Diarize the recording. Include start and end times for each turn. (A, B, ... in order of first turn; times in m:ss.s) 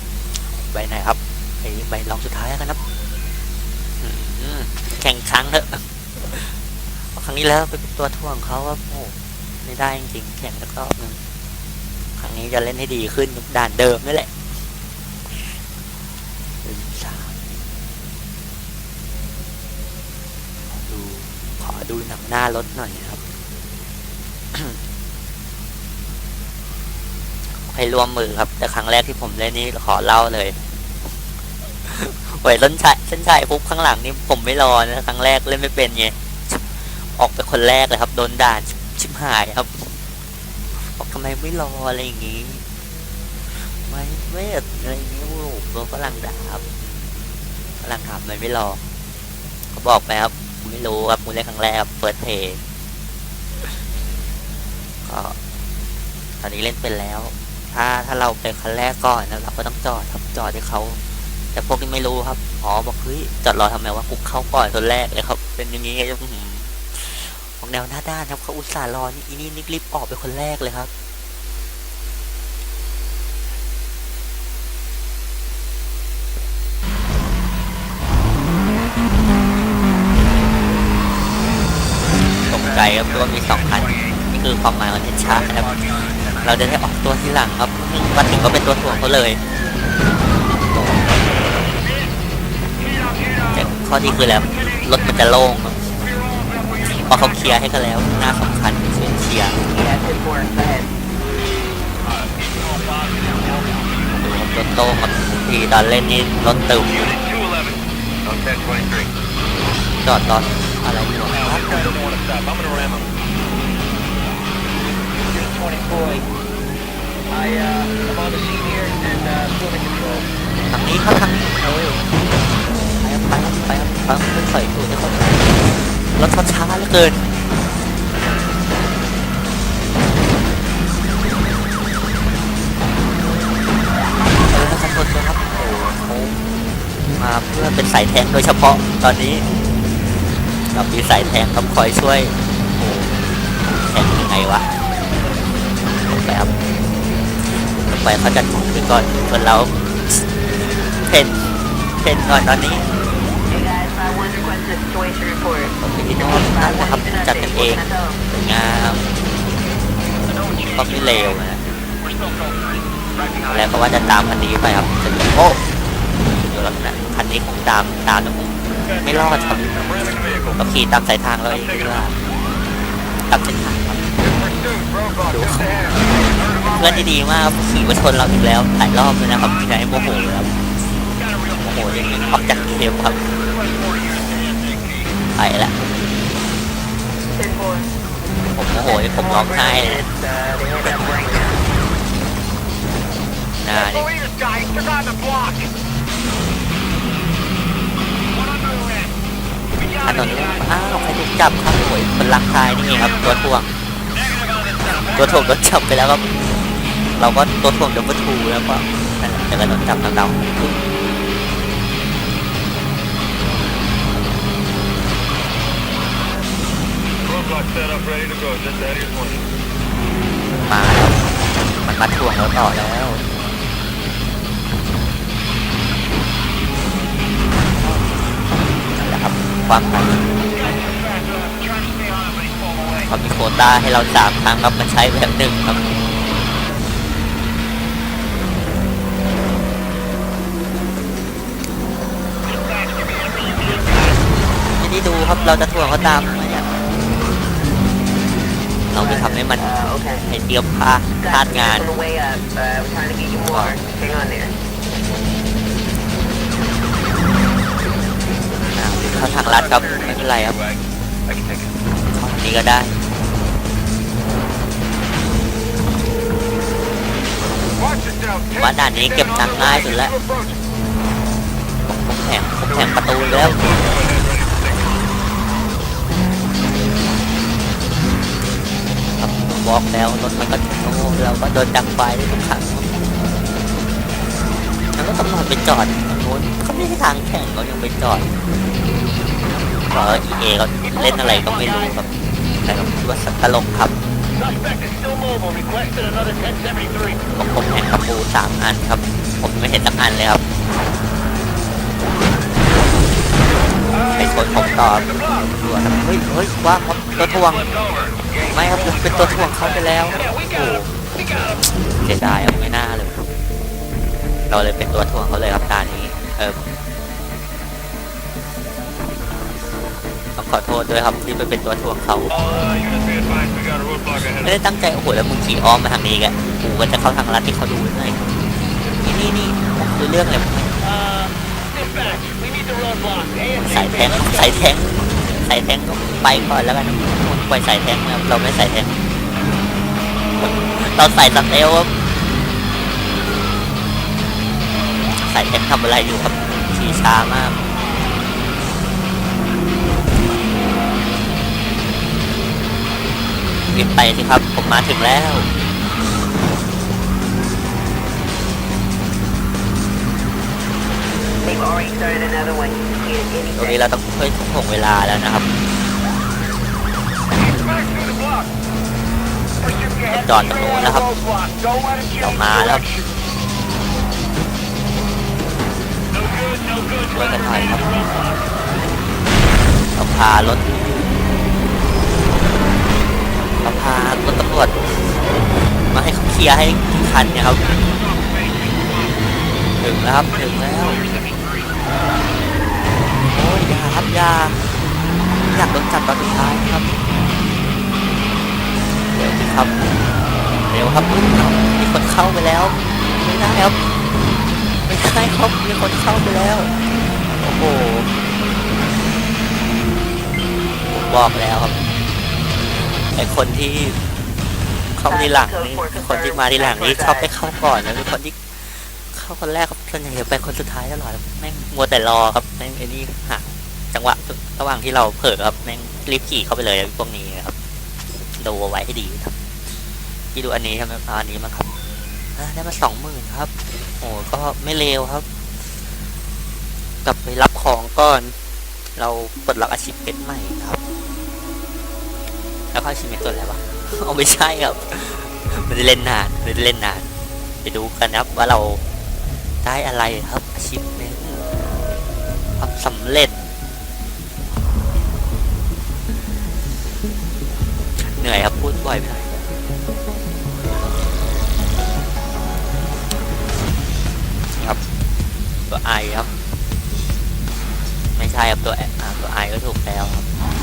0:00.4-0:02.8 A
0:04.0-0:11.2 A
0:12.2-0:14.6 A
0:15.3-0:15.6 A
0:16.6-0:17.4 A
0:20.7-0:23.2 A
0:24.5-0:24.8 A
0:27.5-0:30.6 A
0:31.8-0:40.0 A
0:40.8-0:42.6 A
0:43.5-0:46.7 A
0:47.8-0:48.8 A
0:49.7-0:52.6 A
0:55.0-0:55.4 A
0:56.4-1:01.0 A
1:01.5-1:10.9 A
1:22.4-1:24.2 B
1:22.5-1:29.4 A
1:25.2-1:26.8 B
1:28.3-1:29.1 B
1:30.7-1:31.0 A
1:31.7-1:32.1 B
1:32.8-1:35.4 B
1:33.5-1:35.9 A
1:35.9-1:37.6 B
1:36.9-1:39.6 A
1:38.2-1:38.5 B
1:39.7-1:40.9 C
1:42.0-1:44.4 B
1:44.2-1:46.9 A
1:46.8-1:49.1 B
1:50.0-1:52.0 A
1:51.3-1:53.1 B
1:55.0-1:56.3 B
1:57.3-2:00.3 B
2:00.7-2:02.0 A
2:03.0-2:05.5 A
2:06.2-2:07.2 A
2:14.5-2:16.4 A
2:17.2-2:19.5 A
2:20.7-2:23.1 A
2:23.8-2:24.8 A
2:26.1-2:26.5 A
2:27.9-2:32.9 A
2:33.5-2:38.2 C
2:35.8-2:39.1 A
2:40.2-2:41.4 B
2:40.7-2:41.6 A
2:42.0-2:43.7 B
2:43.5-2:45.6 A
2:46.2-2:49.7 A
2:48.8-2:50.6 B
2:50.6-2:52.1 A
2:51.5-2:52.1 B
2:53.2-2:54.0 A
2:54.2-2:57.1 B
2:55.3-2:55.7 A
2:56.8-3:00.5 A
2:59.3-3:00.4 B
3:01.1-3:05.1 B
3:01.6-3:03.2 A
3:05.3-3:05.7 A
3:07.3-3:07.9 C
3:08.5-3:10.0 A
3:08.8-3:11.6 C
3:13.6-3:14.1 A
3:13.7-3:15.7 B
3:18.3-3:19.1 B
3:19.7-3:21.0 B
3:20.0-3:23.7 A
3:22.9-3:23.4 B
3:24.1-3:25.6 B
3:25.1-3:26.2 A
3:26.9-3:30.8 A
3:37.2-3:39.4 B
3:40.6-3:43.2 A
3:47.8-3:48.2 A
3:48.9-3:50.3 A
3:50.4-3:53.1 B
3:53.1-3:55.9 A
4:02.4-4:04.4 B
4:04.7-4:06.7 A
4:05.0-4:06.2 B
4:08.9-4:11.9 A
4:09.0-4:10.2 C
4:11.2-4:14.5 C
4:13.4-4:13.8 A
4:18.7-4:20.6 A
4:19.0-4:21.7 B
4:22.1-4:23.0 A
4:27.7-4:30.6 B
4:28.5-4:30.2 A
4:31.9-4:33.9 A
4:32.7-4:34.9 B
4:39.2-4:42.9 A
4:44.9-4:48.3 A
4:49.9-4:52.1 A
4:50.8-4:52.0 B
4:52.6-4:53.9 A
4:54.3-4:57.2 B
4:57.3-5:00.4 A
5:03.9-5:05.5 B
5:04.1-5:07.6 A
5:07.2-5:11.7 B
5:08.5-5:13.2 A
5:14.5-5:16.6 A
5:20.4-5:22.3 A
5:22.3-5:24.6 B
5:24.1-5:30.8 A
5:30.8-5:34.6 B
5:33.6-5:39.0 A
5:40.4-5:41.9 A
5:45.2-5:47.6 A
5:53.7-5:55.5 A
6:01.4-6:03.8 C
6:03.5-6:05.5 A
6:07.3-6:08.5 B
6:09.6-6:13.1 B
6:10.1-6:11.1 A
6:12.2-6:12.9 A
6:16.1-6:18.4 B
6:17.1-6:17.8 A
6:19.9-6:20.7 A
6:23.6-6:24.7 A
6:25.8-6:27.6 A
6:27.5-6:29.2 B
6:29.8-6:31.0 A
6:30.2-6:31.8 B
6:33.3-6:34.7 A
6:35.4-6:36.8 A
6:39.1-6:39.8 A
6:40.7-6:43.8 A
6:44.8-6:46.7 A
6:47.4-6:48.1 A
6:50.9-6:51.8 A
6:53.1-6:54.0 A
6:55.0-7:07.5 A
6:55.0-6:57.3 C
7:08.3-7:09.3 A
7:10.3-7:11.7 A
7:12.4-7:13.5 A
7:14.0-7:15.2 A
7:17.0-7:18.3 A
7:19.0-7:20.8 A
7:22.7-7:27.1 A
7:27.6-7:28.8 A
7:29.6-7:31.4 A
7:32.6-7:33.5 A
7:38.0-7:39.5 A
7:45.7-7:46.3 A
7:48.1-7:50.3 A